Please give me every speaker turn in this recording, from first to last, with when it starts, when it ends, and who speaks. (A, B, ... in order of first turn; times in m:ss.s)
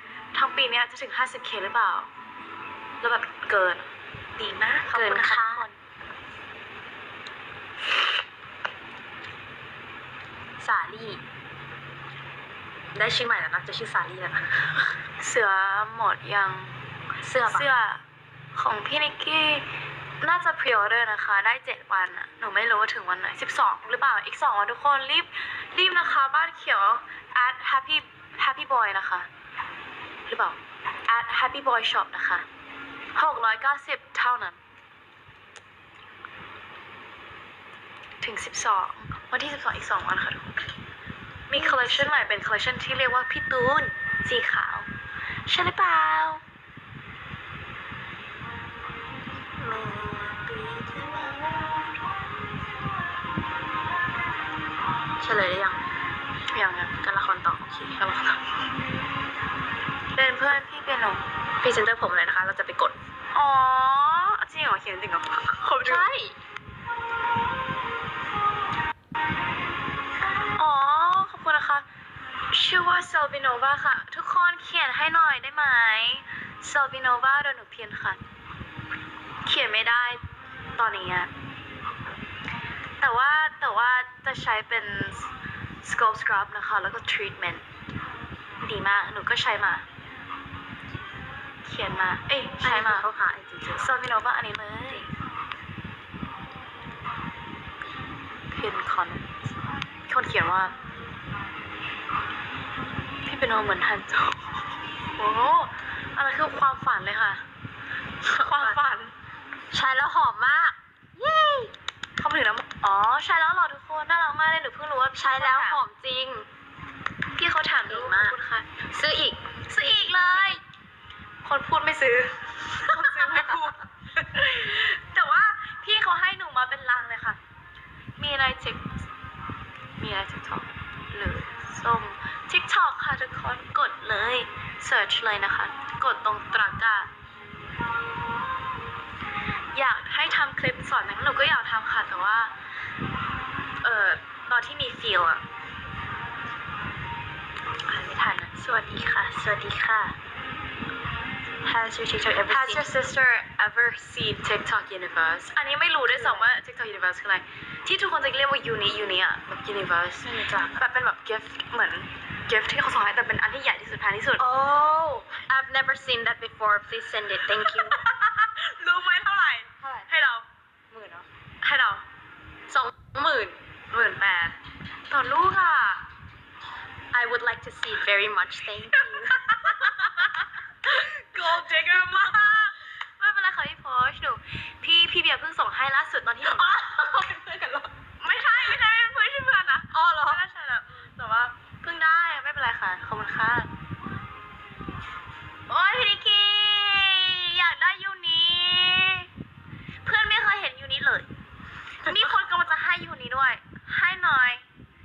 0:00.3-0:02.1 A
0:03.0-0:05.8 A
0:04.9-0:05.6 B
0:10.6-0:11.2 B
0:12.9-0:15.0 B
0:15.2-0:16.8 A
0:17.2-0:17.7 B
0:17.5-0:18.0 A
0:18.5-0:19.7 A
0:20.2-0:29.3 A
0:30.3-0:32.4 A
0:33.1-0:34.6 A
0:38.2-0:40.6 A
0:41.5-0:44.9 A
0:41.5-0:42.3 B
0:45.5-0:46.4 A
0:49.6-0:51.7 B
0:55.2-0:55.8 B
0:56.5-0:56.9 A
0:57.0-0:58.0 B
0:58.0-0:58.5 A
1:00.1-1:01.2 A
1:01.6-1:02.9 B
1:03.3-1:06.0 A
1:05.8-1:06.4 B
1:10.5-1:11.8 A
1:12.5-1:18.2 A
1:19.4-1:20.2 A
1:20.8-1:21.3 A
1:23.0-1:25.3 A
1:25.8-1:27.6 A
1:28.6-1:29.8 A
1:31.6-1:33.0 A
1:32.6-1:33.9 B
1:33.8-1:35.1 A
1:38.5-1:39.3 A
1:40.1-1:40.7 A
1:43.2-1:44.6 A
1:45.2-1:47.4 A
1:48.3-1:48.8 B
1:48.3-1:49.1 A
1:49.7-1:51.7 B
1:52.2-1:55.8 A
1:55.1-1:56.5 B
1:57.4-1:58.7 A
1:57.9-1:58.4 B
1:58.9-2:00.6 B
1:59.7-2:00.6 A
2:01.4-2:07.4 A
2:08.2-2:09.0 A
2:10.0-2:17.1 A
2:19.7-2:22.5 A
2:23.8-2:25.4 A
2:27.9-2:28.5 A
2:28.5-2:30.2 B
2:31.6-2:32.9 B
2:32.5-2:44.4 A
2:36.1-2:36.5 B
2:40.2-2:40.8 B
2:44.4-2:48.0 B
2:47.6-2:50.4 A
2:49.8-2:50.1 B
2:50.9-2:51.3 B
2:51.6-2:52.0 A
2:52.7-2:53.6 B
2:53.9-2:54.6 A
2:55.1-2:56.0 A
2:57.1-3:00.2 B
2:58.9-3:06.8 A
3:02.0-3:02.6 B
3:06.4-3:07.9 B
3:08.2-3:13.7 A
3:09.9-3:10.4 B
3:15.7-3:19.3 A
3:20.0-3:21.3 A
3:22.0-3:24.6 A